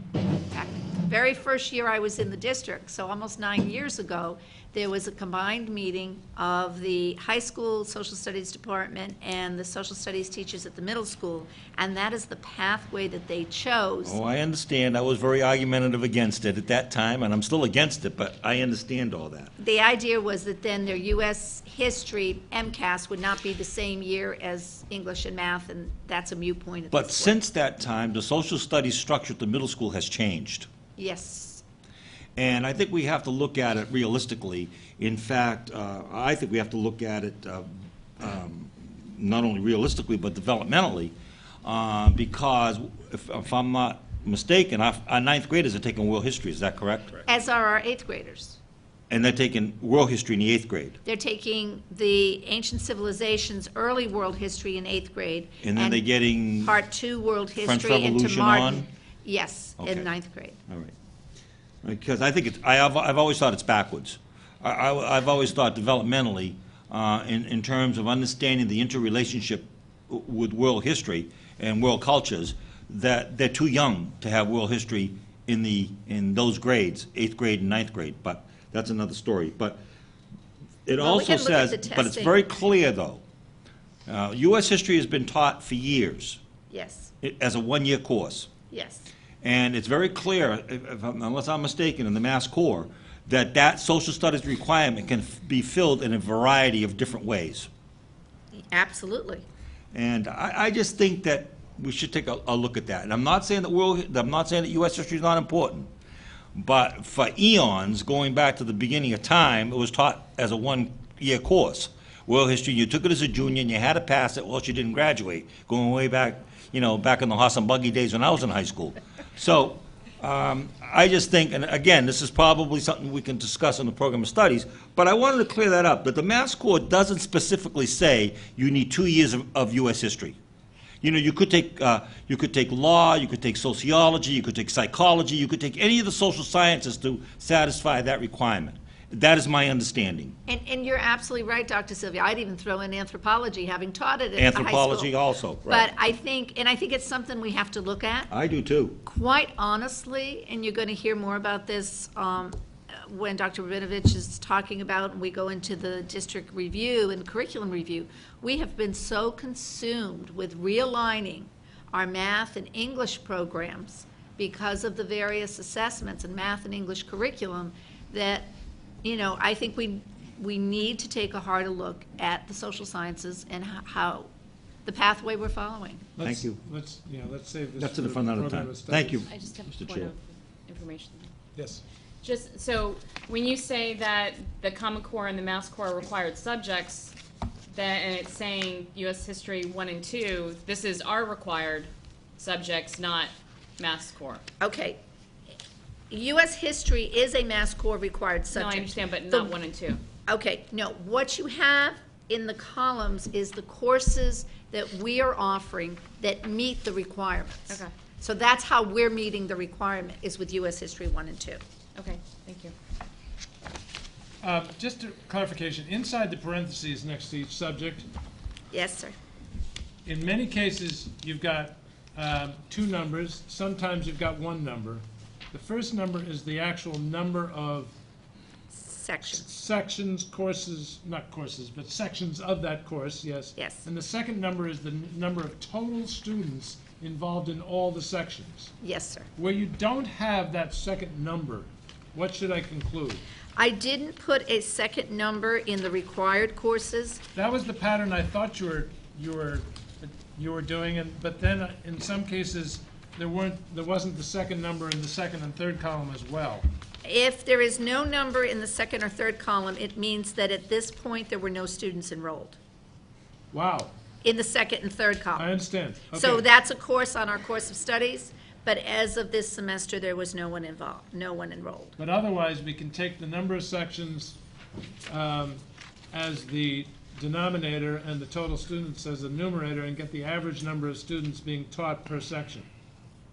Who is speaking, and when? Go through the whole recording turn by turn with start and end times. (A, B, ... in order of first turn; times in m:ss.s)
0:00.5-0:14.2 A
0:14.0-0:19.5 B
0:19.6-0:27.4 A
0:26.9-0:30.7 B
0:31.0-0:31.6 A
0:32.4-0:47.2 B
0:47.2-0:48.6 A
0:49.1-0:51.0 B
0:51.0-0:56.1 A
0:55.6-0:56.8 B
0:56.6-1:00.6 A
0:57.6-0:58.8 B
0:59.8-1:00.1 B
1:00.7-1:00.9 B
1:01.8-1:19.8 B
1:20.9-1:23.2 B
1:21.0-1:22.5 A
1:24.1-1:26.4 B
1:26.7-1:27.1 A
1:27.2-1:28.5 B
1:28.7-1:29.1 A
1:29.4-1:37.7 B
1:38.5-1:39.4 A
1:39.9-1:45.9 B
1:46.6-2:10.4 B
2:11.0-2:20.4 B
2:20.5-2:25.1 A
2:24.4-2:25.9 B
2:25.7-2:28.3 A
2:28.3-2:29.0 B
2:29.0-2:54.3 A
2:54.8-2:56.0 A
2:56.2-2:59.3 C
2:56.2-2:56.6 B
2:57.8-3:00.1 B
2:59.3-3:01.3 D
3:01.6-3:01.8 C
3:02.2-3:07.1 D
3:07.7-3:14.4 D
3:14.6-3:15.0 A
3:16.1-3:19.5 A
3:18.5-3:20.0 D
3:20.3-3:31.6 A
3:32.0-3:32.7 D
3:34.4-3:38.1 C
3:38.7-3:39.2 A
3:40.0-3:47.9 C
3:48.7-3:49.4 A
3:49.2-3:58.7 C
3:53.6-3:53.9 A
3:58.8-3:59.3 A
3:59.4-4:03.2 C
4:03.6-4:07.2 A
4:07.4-4:16.7 C
4:17.0-4:22.6 A
4:23.5-4:23.9 C
4:24.2-4:25.5 A
4:25.4-4:26.4 C
4:26.2-4:32.0 A
4:32.0-4:34.4 C
4:35.1-4:35.6 C
4:36.1-4:42.7 C